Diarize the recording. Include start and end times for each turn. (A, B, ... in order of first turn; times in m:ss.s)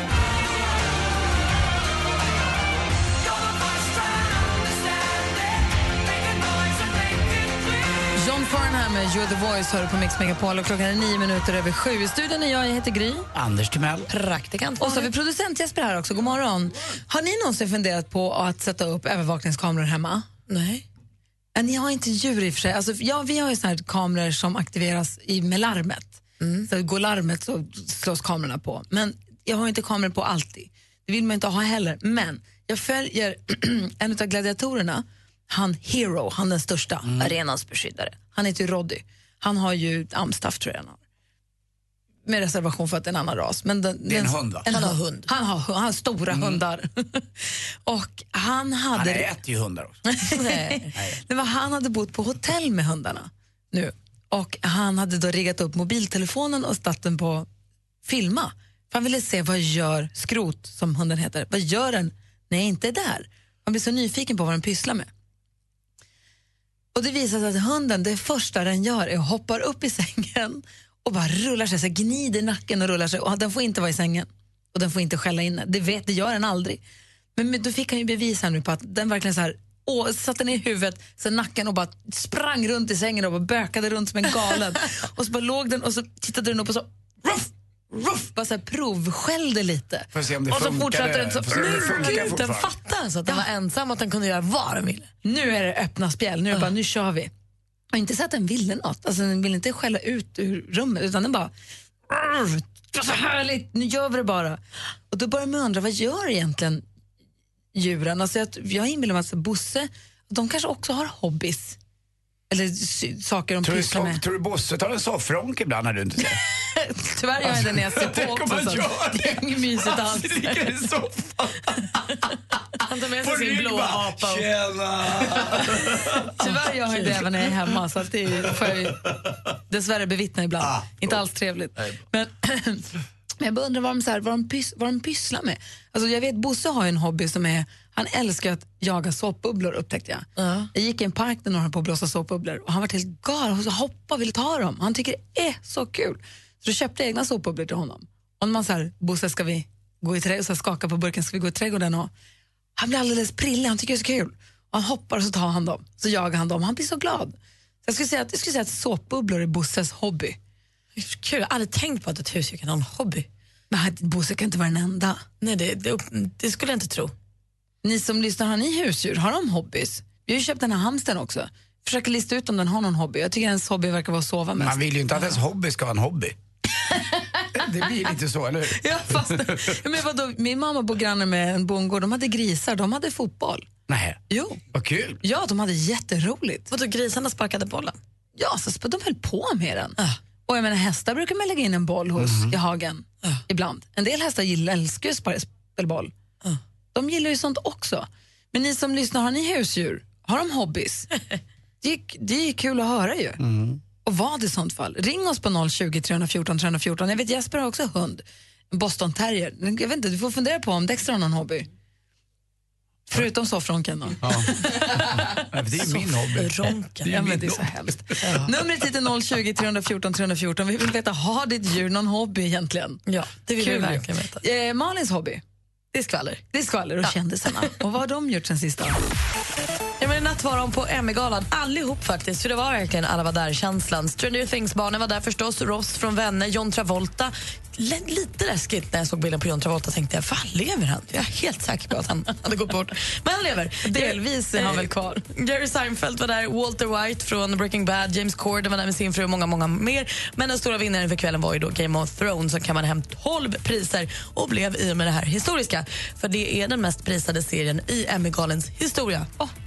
0:08.2-0:13.3 A
0:13.3-0:14.1 B
0:14.1-0:15.1 C
0:14.8-0:20.3 A
0:20.5-0:20.8 C
0:21.6-0:41.0 A
0:26.4-0:26.7 C
0:37.0-0:37.3 B
0:42.3-0:47.2 A
0:44.1-0:44.7 B
0:44.7-0:45.3 C
0:46.3-0:46.6 B
0:47.9-0:49.3 A
0:48.9-0:50.0 B
0:50.3-0:57.5 A
0:50.3-0:50.9 C
0:50.9-0:51.2 B
0:58.0-1:05.1 A
1:06.9-1:16.8 A
1:17.4-1:32.3 A
1:30.1-1:32.7 B
1:31.4-1:35.1 C
1:35.2-1:37.3 A
1:37.9-1:41.5 A
1:42.1-1:44.6 A
1:45.1-1:46.8 A
1:47.8-1:51.8 A
1:52.5-1:54.2 A
1:53.6-1:56.4 B
1:56.8-2:01.2 A
1:57.5-1:59.4 B
2:02.8-2:04.5 C
2:03.2-2:05.7 B
2:06.4-2:09.0 A
2:06.4-2:07.4 C
2:09.7-2:12.8 A
2:10.6-2:11.0 B
2:13.4-2:32.1 A
2:20.4-2:20.7 C
2:32.8-2:40.4 A
2:41.0-2:43.3 C
2:43.7-2:45.2 A
2:45.4-2:47.1 C
2:47.8-2:55.3 A
2:54.6-2:56.4 B
2:57.6-2:59.6 B
2:58.8-3:03.6 A
3:03.9-3:04.2 B
3:04.3-3:04.6 A
3:04.7-3:05.2 B
3:05.2-3:06.7 A
3:06.7-3:08.0 C
3:08.4-3:16.1 A
3:12.2-3:12.6 B
3:16.9-3:21.1 A
3:21.8-3:23.4 A
3:23.4-3:23.8 B
3:24.0-3:31.7 A
3:33.1-3:35.0 A
3:34.2-3:34.5 B
3:35.4-3:37.9 B
3:35.9-3:37.3 C
3:37.1-3:43.0 A
3:38.2-3:38.5 C
3:43.1-3:44.4 C
3:43.6-3:45.4 A
3:45.9-3:46.4 C
3:46.5-3:49.0 A
3:47.0-3:47.6 C
3:50.0-4:19.3 C
4:03.9-4:05.1 A